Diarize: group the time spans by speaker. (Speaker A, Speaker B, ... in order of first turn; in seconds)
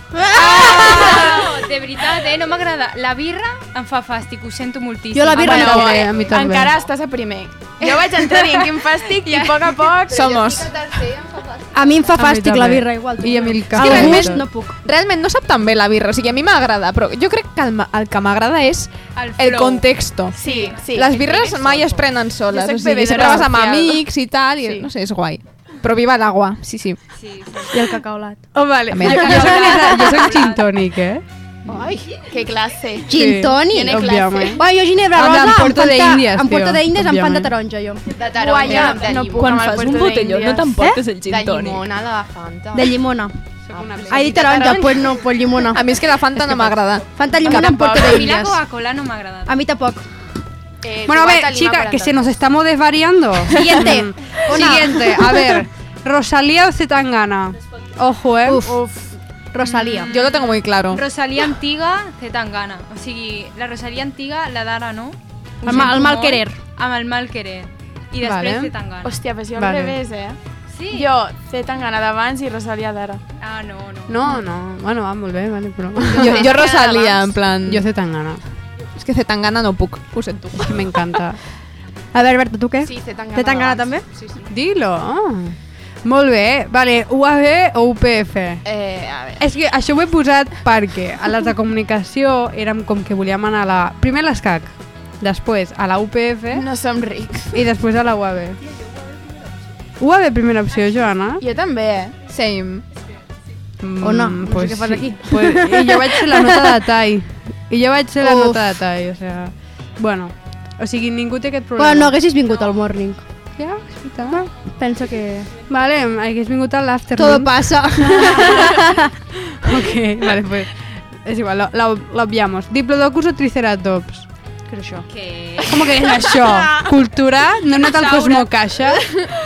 Speaker A: 0.2-0.8, 5.1-6.1, 11.7-14.8, 27.7-30.3, 33.1-38.1, 42.7-43.4, 44.1-45.8, 47.2-48.6, 49.5-50.1, 53.5-55.6, 58.5-60.1, 65.6-66.6, 82.1-84.1, 104.0-106.8, 108.2-108.6, 111.8-113.3, 114.3-115.5, 117.2-119.1, 124.7-125.1
Speaker B: 0.3-5.9, 7.8-9.6, 19.2-19.9, 20.4-20.8, 27.2-27.8, 29.3-30.7, 47.9-49.5, 59.6-60.2, 60.9-69.2, 70.7-71.1, 73.4-74.4, 125.1-125.8
Speaker C: 0.4-1.4, 5.4-10.6, 20.4-21.5, 22.5-24.0, 24.6-24.9, 29.3-30.2, 31.7-34.6, 38.3-40.8, 47.5-48.4, 69.0-70.4, 70.9-73.2, 96.5-97.6, 101.4-102.2
Speaker D: 5.4-6.8, 12.2-14.4, 28.5-31.2, 33.1-34.6, 35.2-37.5, 43.7-44.7, 51.1-58.8, 65.7-66.0, 68.2-68.7, 69.5-70.0, 74.1-76.6, 77.7-78.4, 80.6-81.4, 84.5-88.6, 89.4-96.7, 97.5-98.6, 100.0-101.4, 103.8-112.2, 115.7-118.9, 119.5-124.3, 125.7-129.1
Speaker E: 10.1-10.7, 13.7-27.0, 28.9-29.4, 45.7-47.1, 60.1-61.0, 76.1-77.9, 79.0-81.0, 102.3-102.8, 113.6-114.4
Speaker F: 10.2-12.3, 21.1-22.0, 38.1-39.9, 41.2-43.0, 43.7-45.3, 50.8-52.2, 76.2-77.2, 82.8-84.4, 88.7-89.4
Speaker G: 39.3-41.8